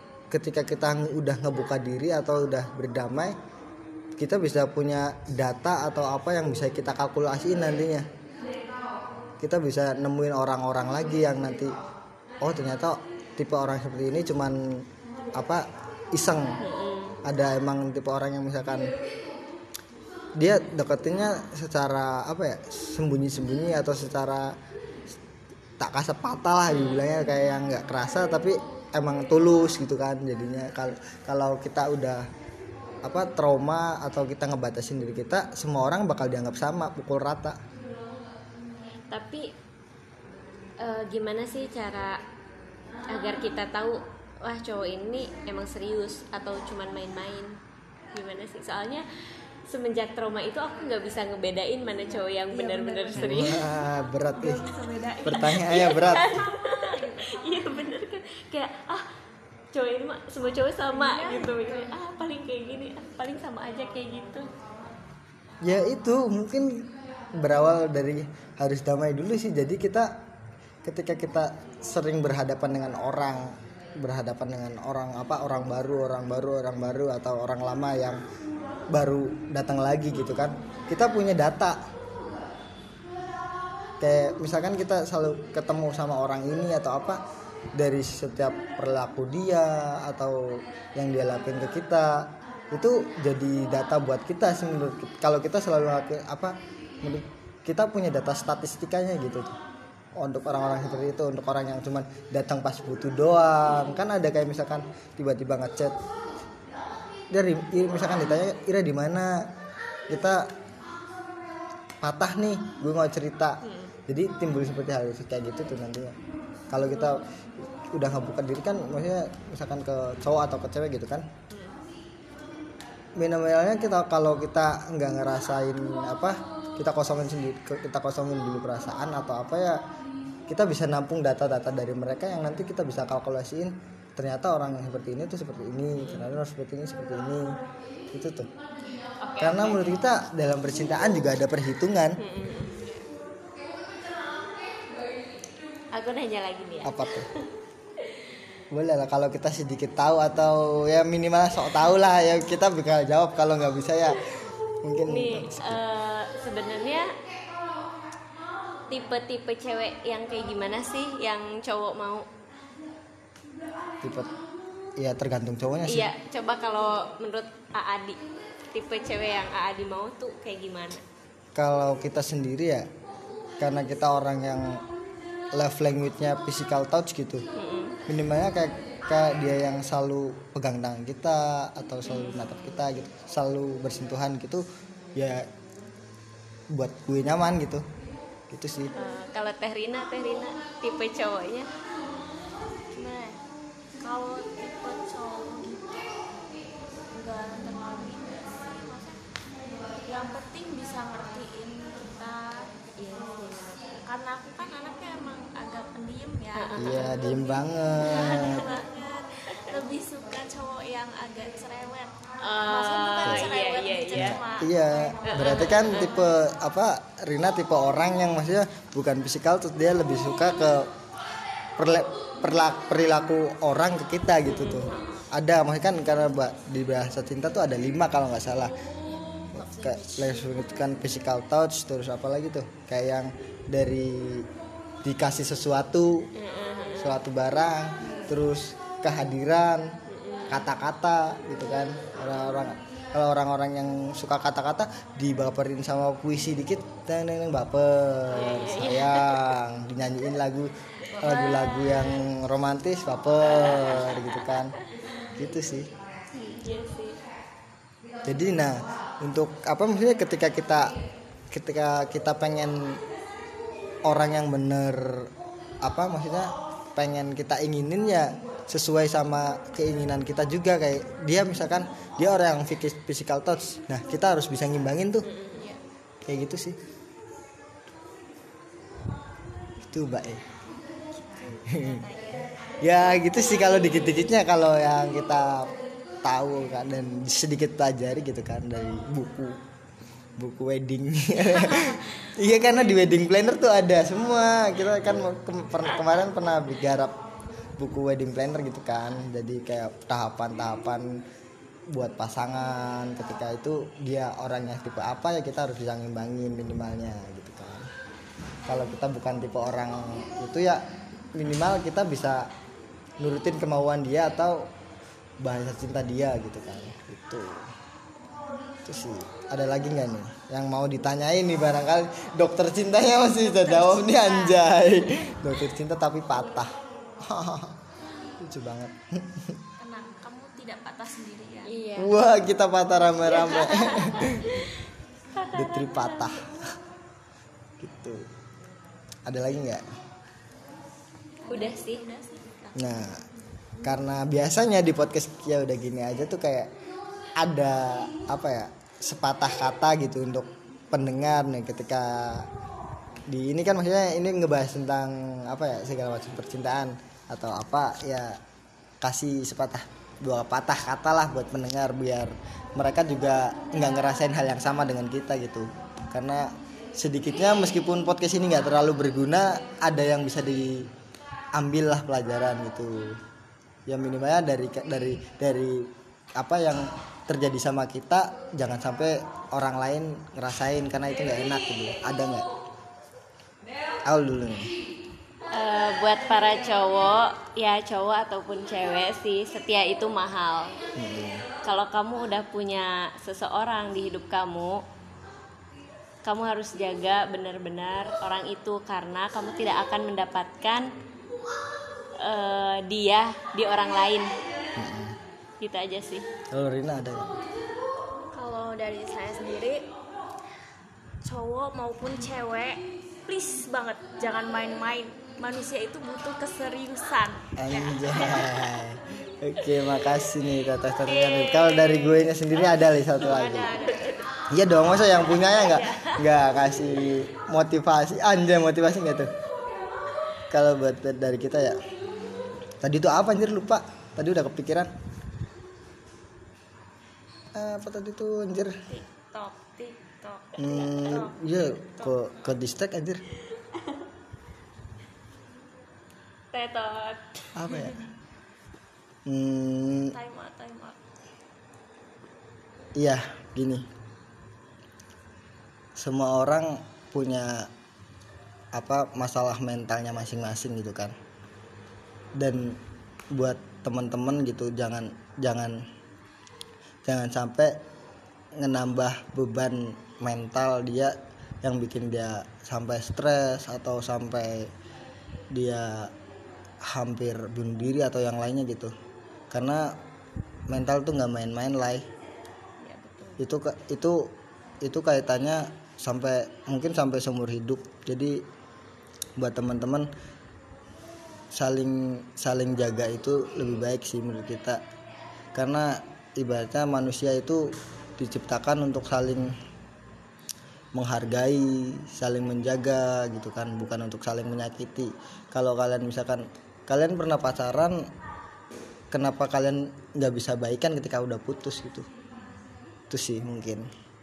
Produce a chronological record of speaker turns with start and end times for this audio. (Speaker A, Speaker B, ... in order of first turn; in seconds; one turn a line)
Speaker A: 0.3-3.4
Speaker A: 4.2-8.1
Speaker A: 9.4-11.7
Speaker A: 12.4-14.8
Speaker A: 15.4-16.6
Speaker B: 16.6-17.2
Speaker A: 17.2-18.9
Speaker A: 20.4-24.6
Speaker A: 25.8-32.3
Speaker B: 26.7-27.1
Speaker A: 33.0-37.6
Speaker B: 39.1-39.5
Speaker B: 40.8-42.2
Speaker B: 43.1-47.6
Speaker B: 48.1-49.1
Speaker B: 49.6-53.6
Speaker C: 52.5-53.7
Speaker A: 53.1-54.6
Speaker C: 54.4-57.6
Speaker A: 55.2-56.4
Speaker B: 55.4-59.1
Speaker B: 59.7-64.5
Speaker C: 60.9-61.7
Speaker A: 65.6-70.2
Speaker A: 70.8-78.2
Speaker A: 78.9-81.8
Speaker A: 84.0-87.2
Speaker A: 87.7-99.5
Speaker A: 100.2-105.9
Speaker B: 103.7-104.0
Speaker A: 107.3-109.5
Speaker A: 110.1-110.5
Speaker A: 112.0-116.2
Speaker B: 113.6-113.9
Speaker A: 116.7-121.3
Speaker B: 121.5-121.8
Speaker A: 123.2-129.8
Speaker A: 130.5-137.6
Speaker B: 136.0-136.3
Speaker A: 138.1-138.5
Speaker B: 139.2-140.1
Speaker A: 139.4-142.2
Speaker B: 142.2-142.8
Speaker B: 145.9-147.4
Speaker A: 146.8-147.3
Speaker A: 148.7-155.8
Speaker B: 155.1-157.1
Speaker B: 158.9-162.3
Speaker A: 164.0-164.3
Speaker A: 165.0-166.1
Speaker B: 165.9-168.2
Speaker B: 168.7-171.0
Speaker A: 171.6-172.9
Speaker A: 173.6-174.8
Speaker A: 175.5-177.4
Speaker B: 177.6-178.0
Speaker A: 178.1-184.6
Speaker B: 182.1-182.8
Speaker A: 185.2-185.5
Speaker A: 186.7-187.8
Speaker A: 188.5-188.9
Speaker B: 188.9-191.7
Speaker C: 192.9-193.4
Speaker C: 194.0-196.2
Speaker C: 197.1-199.2
Speaker C: 200.1-202.7
Speaker B: 203.0-203.8
Speaker C: 204.1-216.2
Speaker B: 206.6-207.2
Speaker A: 206.8-208.6
Speaker B: 208.2-208.6
Speaker B: 212.4-214.4
Speaker A: 213.2-213.5
Speaker A: 214.1-220.9
Speaker B: 215.2-216.2
Speaker A: 221.8-228.8
Speaker B: 224.5-224.9
Speaker C: 224.9-225.3
Speaker C: 228.9-230.8
Speaker A: 229.5-234.5
Speaker A: 235.0-236.3
Speaker B: 236.4-237.2
Speaker A: 237.0-239.9
Speaker B: 238.0-238.3
Speaker B: 240.1-240.6
Speaker A: 240.5-254.8
Speaker B: 248.3-249.5
Speaker B: 251.2-252.0
Speaker B: 253.6-254.2
Speaker A: 255.3-255.9
Speaker B: 256.3-257.2
Speaker A: 258.2-260.9
Speaker A: 261.5-263.0
Speaker A: 264.1-265.3
Speaker A: 265.8-275.3
Speaker B: 275.2-275.7
Speaker C: 275.6-275.8
Speaker A: 276.2-276.8
Speaker A: 279.8-280.4
Speaker C: 281.1-282.4
Speaker A: 281.7-282.0
Speaker A: 282.8-285.7
Speaker A: 286.2-289.6
Speaker A: 290.4-297.1
Speaker A: 297.8-301.2
Speaker A: 301.9-307.9
Speaker A: 308.6-310.8
Speaker A: 311.4-312.5
Speaker A: 313.2-314.7
Speaker A: 315.4-317.6
Speaker A: 318.9-327.8
Speaker C: 323.3-324.6
Speaker A: 328.4-329.6
Speaker C: 329.8-331.8
Speaker B: 331.6-332.2
Speaker A: 331.9-334.6
Speaker B: 333.3-334.6
Speaker B: 335.3-336.3
Speaker A: 335.5-336.7
Speaker A: 337.8-338.3
Speaker A: 339.3-339.8
Speaker C: 341.4-342.9
Speaker B: 341.5-342.0
Speaker A: 342.8-343.2
Speaker A: 343.8-346.7
Speaker A: 347.4-352.5
Speaker A: 353.3-358.4
Speaker A: 359.0-370.9
Speaker A: 371.5-373.2
Speaker A: 373.9-382.5
Speaker A: 384.1-384.7
Speaker B: 385.5-390.8
Speaker A: 390.9-391.5
Speaker B: 391.6-394.8
Speaker B: 396.2-400.9
Speaker B: 402.2-404.3
Speaker A: 404.8-405.2
Speaker B: 405.6-406.3
Speaker A: 406.5-407.4
Speaker C: 408.3-409.9
Speaker C: 411.2-418.5
Speaker A: 417.6-423.7
Speaker B: 421.1-422.1
Speaker B: 422.7-424.2
Speaker C: 422.9-424.1
Speaker A: 424.5-429.3
Speaker B: 425.7-426.0
Speaker A: 430.5-431.8
Speaker A: 432.8-434.9
Speaker A: 437.6-438.8
Speaker C: 438.9-442.6
Speaker A: 440.6-443.2
Speaker B: 440.7-441.1
Speaker B: 446.5-447.5
Speaker A: 447.6-448.0
Speaker A: 449.3-450.1
Speaker C: 450.1-451.0
Speaker A: 453.0-453.9
Speaker A: 455.9-457.7
Speaker A: 458.7-461.1
Speaker A: 462.4-462.8
Speaker A: 463.3-465.9
Speaker A: 467.1-467.8
Speaker A: 468.6-474.7
Speaker A: 475.5-476.1
Speaker A: 476.8-478.9
Speaker A: 479.5-480.0
Speaker A: 480.7-482.1
Speaker C: 482.8-483.4
Speaker A: 483.4-488.4
Speaker A: 489.4-490.1
Speaker A: 491.5-494.8
Speaker A: 495.6-497.6
Speaker A: 498.2-499.5
Speaker A: 500.9-508.1
Speaker A: 509.1-512.1
Speaker A: 513.1-513.9